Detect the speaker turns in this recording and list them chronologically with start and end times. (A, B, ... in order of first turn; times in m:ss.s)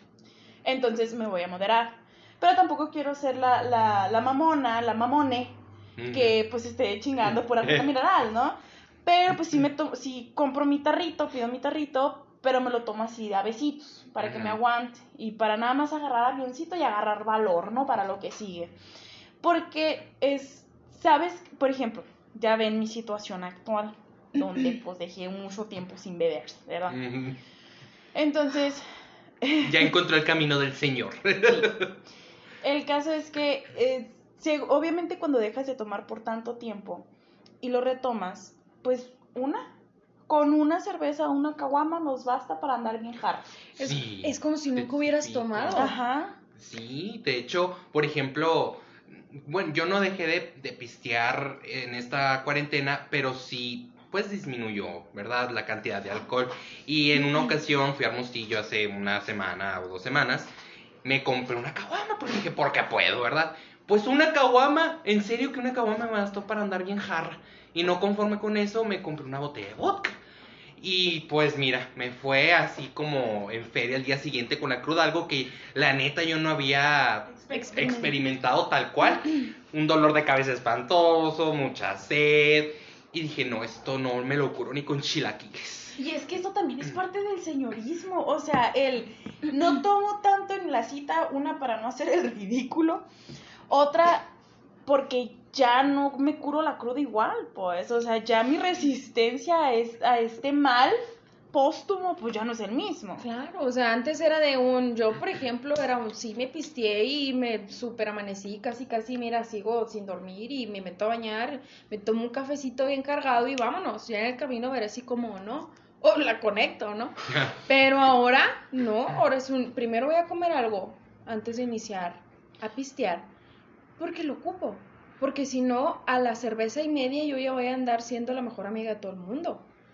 0:00.6-0:18.7 A
0:06.0-0:06.4 B
0:14.2-0:14.6 B
0:19.4-0:27.2 A
0:26.9-0:27.4 B
0:28.1-0:28.8 A
0:29.4-0:29.9 A
0:29.6-0:31.9 B
0:31.4-0:31.8 A
0:32.6-0:37.1 A
0:37.6-0:39.7 A
0:40.3-0:43.5 A
0:43.8-0:45.9 B
0:43.8-0:46.0 C
0:45.8-0:46.4 A
0:46.6-1:00.5 B
1:01.0-1:10.2 B
1:10.8-1:26.0 B
1:17.5-1:18.1 A
1:26.0-1:33.0 A
1:33.7-1:34.3 A
1:34.9-1:41.0 A
1:41.5-1:43.2 A
1:43.2-2:03.3 C
2:04.0-2:09.6 C